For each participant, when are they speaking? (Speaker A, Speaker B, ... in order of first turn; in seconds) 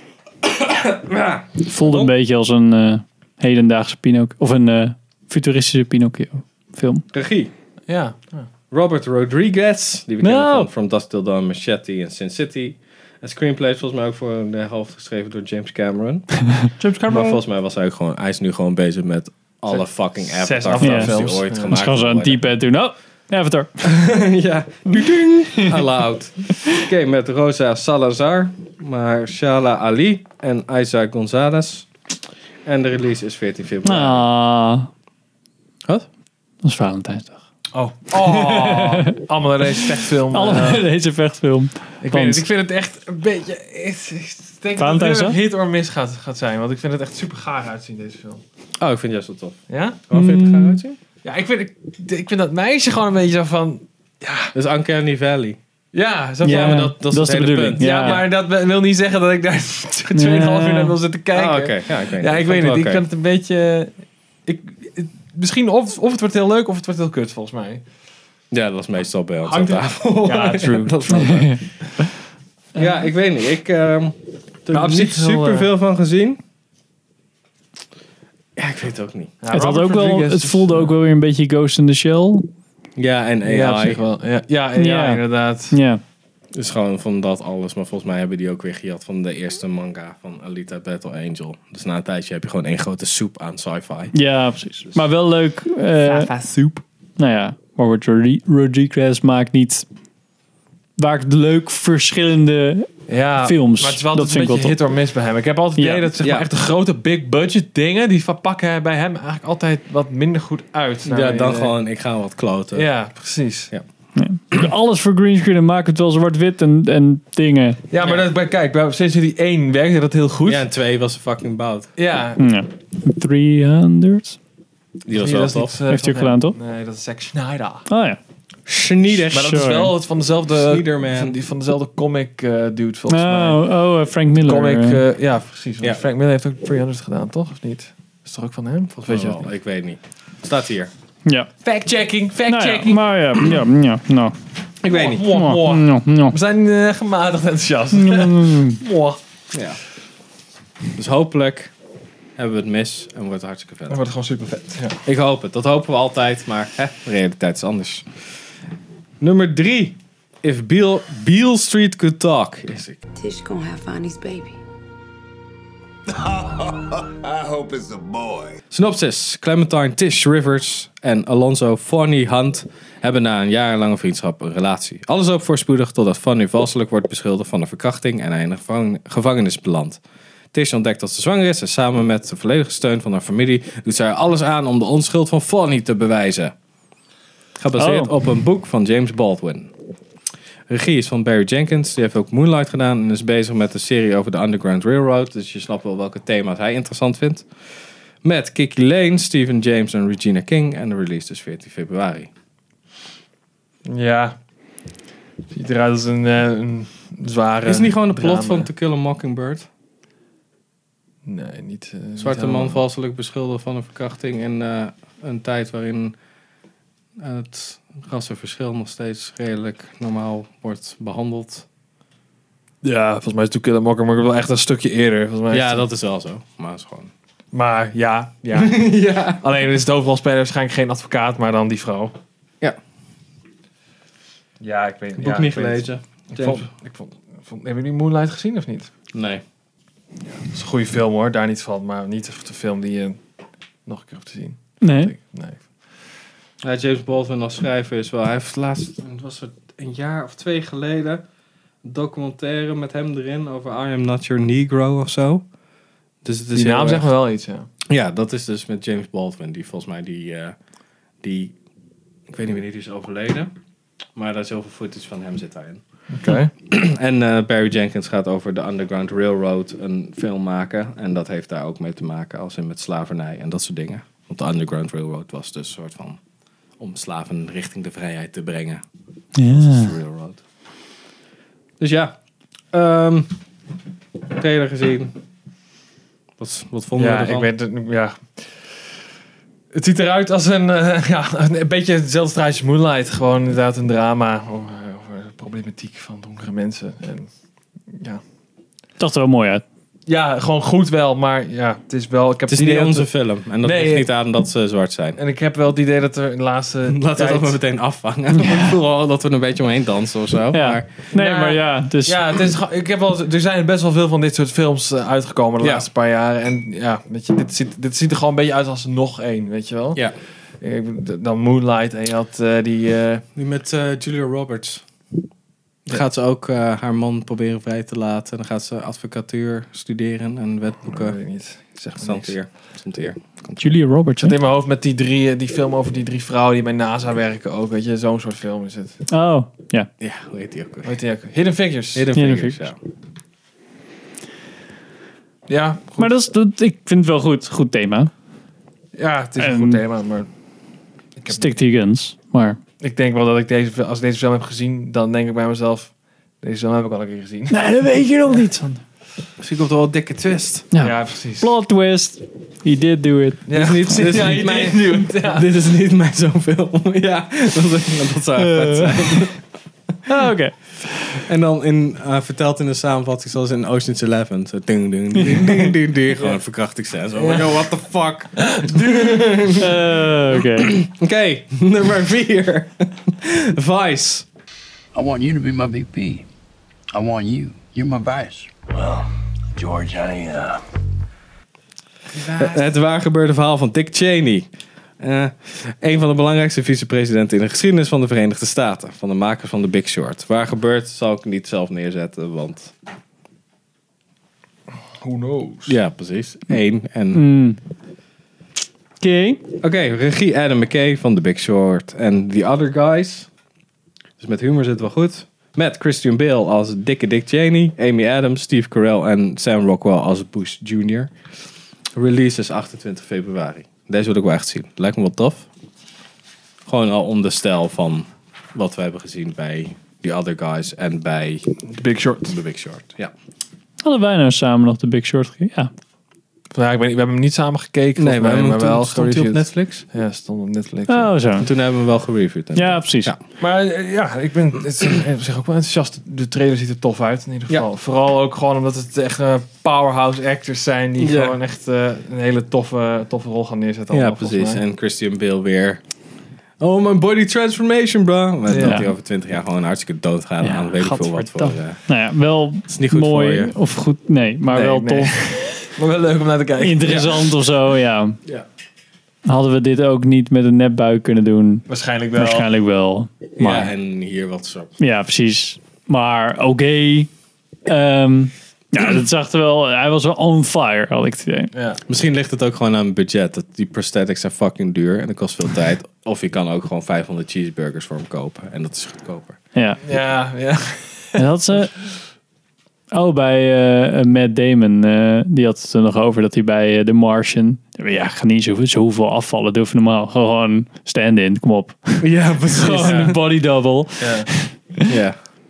Speaker A: 0.4-2.1, 7.1-7.5, 8.7-16.5, 17.0-22.4, 23.8-31.9, 32.6-34.3, 48.8-49.6, 50.1-51.0, 54.5-55.6, 56.5-58.2, 61.3-63.0, 68.5-71.6, 72.7-76.4, 78.5-79.3, 83.0-84.0, 86.5-94.1, 106.2-106.5, 111.0-112.9, 120.4-121.9, 125.0-125.7, 128.7-129.6, 130.5-131.3, 138.9-140.9, 144.8-145.3, 149.5-149.8, 150.9-151.7, 152.4-154.0, 155.0-158.1, 159.2-163.0, 168.7-180.0, 180.5-186.5, 187.6-189.7, 190.7-197.5, 198.2-202.3, 207.6-209.7, 212.2-216.2, 217.2-221.7, 225.5-227.1, 228.5-229.4, 235.2-236.7, 239.1-239.4, 246.6-251.2, 251.8-255.4, 256.2-257.1, 257.9-260.6, 261.2-261.5, 262.3-263.5, 264.1-265.8, 266.7-276.2, 276.8-278.8, 279.4-280.4, 281.8-282.1, 282.7-283.4, 284.3-285.1, 286.4-287.5, 302.5-305.2, 306.9-310.8, 315.6-315.9, 323.3-324.8, 325.9-331.2, 331.9-333.7, 340.0-340.9, 341.9-342.8, 359.4-360.6, 363.5-369.4, 371.2-379.7, 380.7-384.3, 392.1-394.5, 395.0-402.7, 405.7-407.2, 409.6-413.3, 414.2-421.1, 421.9-425.5, 426.7-431.5, 432.3-433.1, 438.0-439.9, 441.4-443.2, 451.0-451.4, 453.9-455.8, 456.6-461.8, 462.7-463.5, 473.4-474.7, 481.9-489.4, 502.0-503.1, 504.9-505.2
Speaker B: 1.6-7.0, 10.2-10.7, 16.8-17.4, 20.8-24.2, 33.8-34.9, 36.6-37.4, 38.1-39.1, 40.3-42.4, 44.8-45.4, 50.1-50.8, 56.4-58.2, 60.1-61.0, 71.1-71.6, 79.5-82.5, 84.8-86.0, 94.1-96.4, 97.2-99.8, 101.0-104.8, 105.8-106.1, 114.2-117.8, 122.4-124.4, 125.9-126.5, 127.9-128.2, 129.3-129.9, 133.1-135.0, 142.5-144.3, 145.2-146.3, 147.9-148.8, 187.8-188.1, 244.8-245.1, 279.4-279.9, 299.0-299.6, 310.5-312.2, 333.6-334.4, 339.1-339.9, 342.1-342.7, 346.0-348.1, 349.4-349.8, 351.3-352.6, 357.5-358.8, 360.7-363.4, 368.4-369.3, 370.1-371.1, 375.2-375.7, 379.5-380.8, 407.1-407.6, 409.0-409.4, 433.8-435.7, 440.9-441.5, 442.5-443.1, 458.5-458.9, 460.4-465.1, 466.6-468.1, 469.2-473.7, 474.8-477.1, 477.6-481.5, 489.5-489.8, 491.1-491.9, 492.9-504.5
Speaker C: 7.9-8.5, 19.7-21.8, 37.7-40.8, 42.0-48.4, 49.7-50.0, 51.2-54.5, 55.9-57.0, 57.8-63.9, 64.5-67.8, 69.4-71.4, 74.7-75.7, 79.4-81.0, 83.4-85.8, 103.1-111.7, 112.7-113.7, 117.9-120.6, 122.0-122.5, 125.2-127.8, 129.3-133.7, 134.4-139.5, 141.6-143.1, 144.9-149.2, 153.9-155.0, 203.8-204.3, 205.5-208.7, 211.2-212.8, 222.8-225.8, 227.5-232.1, 234.6-238.9, 240.4-243.2, 243.8-245.7, 256.5-257.7, 266.1-266.5, 287.0-288.8, 289.7-297.3, 297.9-298.2, 300.1-304.1, 305.1-307.6, 311.1-320.0, 320.6-323.2, 330.9-332.4, 334.2-339.0, 340.8-342.1, 345.5-346.1, 348.9-350.3, 351.2-351.5, 352.8-357.6, 360.8-361.5, 363.4-365.5, 377.2-377.6, 378.3-378.8, 405.0-405.8, 431.6-432.4, 436.5-441.1, 443.4-454.6, 458.5-458.8, 464.5-467.4, 471.7-472.5, 481.5-481.8, 489.8-491.2, 502.6-503.2, 504.0-504.3
Speaker D: 96.1-96.8, 163.2-164.6
Speaker E: 166.2-168.5
Speaker F: 384.9-386.2, 386.9-390.6